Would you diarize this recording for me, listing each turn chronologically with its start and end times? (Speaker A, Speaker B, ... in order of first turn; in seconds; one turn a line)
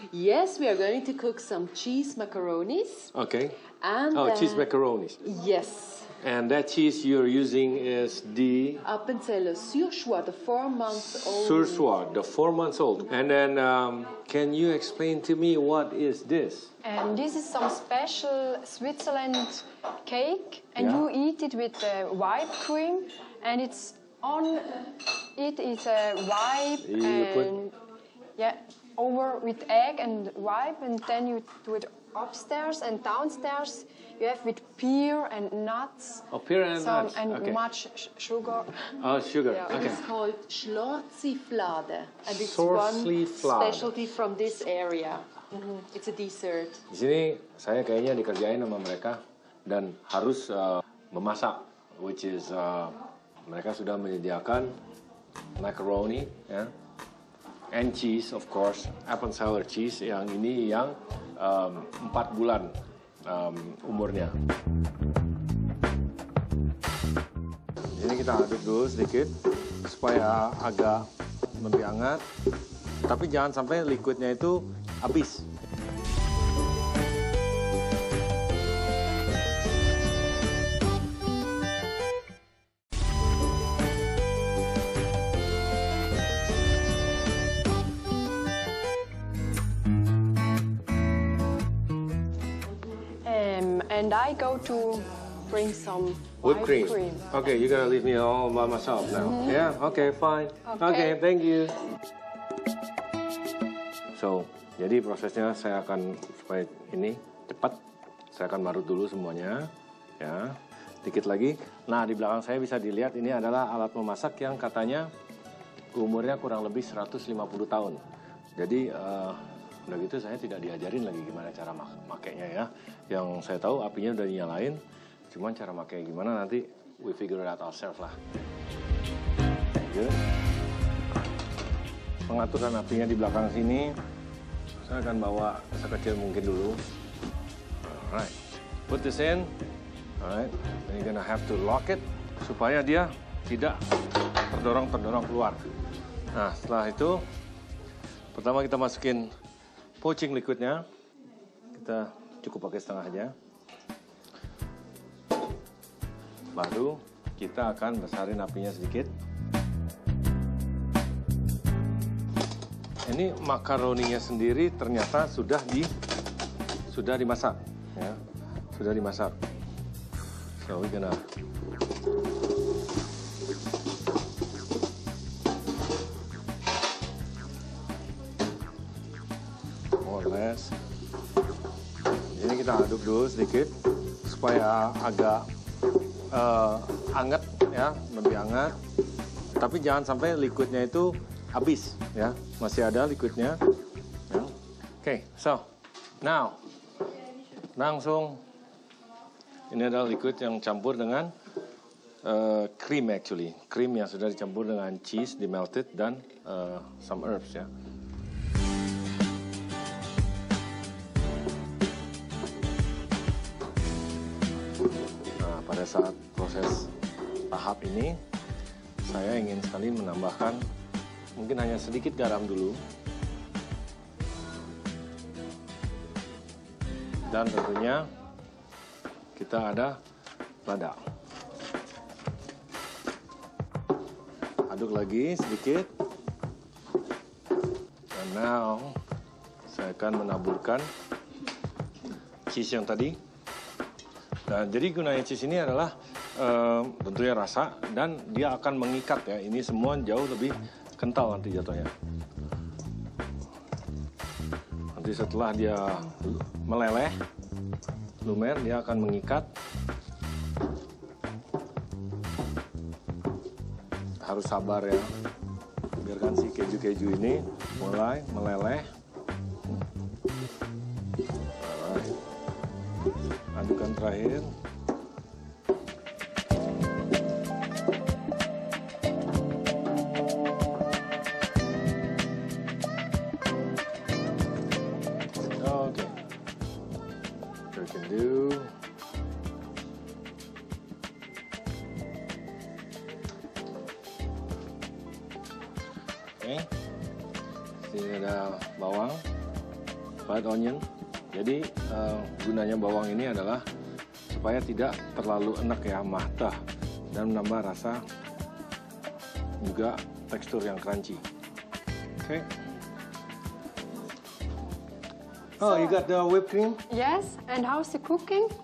Speaker A: 0.1-3.1
Speaker B: 3.1-3.6
Speaker A: 3.8-4.7
Speaker B: 4.1-5.2
Speaker A: 5.2-6.1
Speaker B: 6.2-8.8
Speaker A: 8.8-11.9
Speaker B: 10.9-16.7
Speaker C: 16.8-27.8
Speaker B: 20.8-21.1
Speaker B: 26.8-27.5
Speaker C: 28.4-38.9
Speaker B: 36.3-37.6
Speaker B: 39.0-40.0
Speaker C: 39.5-39.8
Speaker A: 39.7-46.8
Speaker B: 42.2-43.9
Speaker B: 46.9-54.7
Speaker B: 55.6-56.7
Speaker B: 57.7-62.7
Speaker B: 63.2-64.3
Speaker B: 67.9-71.0
Speaker B: 71.6-72.2
Speaker B: 73.0-75.5
Speaker C: 93.2-97.4
Speaker B: 96.4-101.8
Speaker C: 99.2-99.6
Speaker C: 100.7-101.2
Speaker B: 104.2-115.1
Speaker B: 115.9-118.0
Speaker B: 118.6-124.8
Speaker B: 125.3-128.2
Speaker B: 129.7-130.2
Speaker B: 132.3-134.0
Speaker B: 134.8-136.8
Speaker B: 137.8-138.4
Speaker B: 138.9-139.5
Speaker B: 140.2-143.8
Speaker B: 144.4-145.6
Speaker B: 146.3-147.2
Speaker B: 148.3-149.3
Speaker B: 150.0-150.8
Speaker B: 151.7-153.3
Speaker B: 156.5-159.1
Speaker B: 163.1-165.9
Speaker B: 166.9-168.2
Speaker B: 168.7-169.3
Speaker B: 170.6-171.2
Speaker B: 180.0-180.8
Speaker B: 182.3-185.5
Speaker B: 186.3-188.8
Speaker B: 189.6-193.6
Speaker B: 194.3-195.7
Speaker B: 196.2-196.6
Speaker B: 197.8-198.4
Speaker B: 199.7-201.3
Speaker B: 202.2-207.7
Speaker B: 215.4-216.9
Speaker B: 217.5-218.2
Speaker B: 219.0-220.6
Speaker B: 221.4-222.8
Speaker B: 227.3-228.1
Speaker B: 229.4-230.0
Speaker B: 230.7-231.0
Speaker B: 234.7-235.9
Speaker B: 238.1-239.0
Speaker B: 239.7-240.9
Speaker B: 242.5-243.2
Speaker B: 244.5-251.9
Speaker B: 254.9-257.2
Speaker B: 258.2-259.5
Speaker B: 264.2-265.1
Speaker B: 266.0-268.9
Speaker B: 271.6-272.2
Speaker B: 273.5-274.5
Speaker B: 285.4-286.2
Speaker B: 287.7-288.7
Speaker B: 296.4-296.7
Speaker B: 297.9-299.2
Speaker B: 300.3-303.6
Speaker B: 304.3-306.6
Speaker B: 307.1-308.0
Speaker B: 309.6-311.2
Speaker B: 312.2-312.5
Speaker B: 315.6-316.8
Speaker C: 315.6-316.0
Speaker C: 316.9-318.5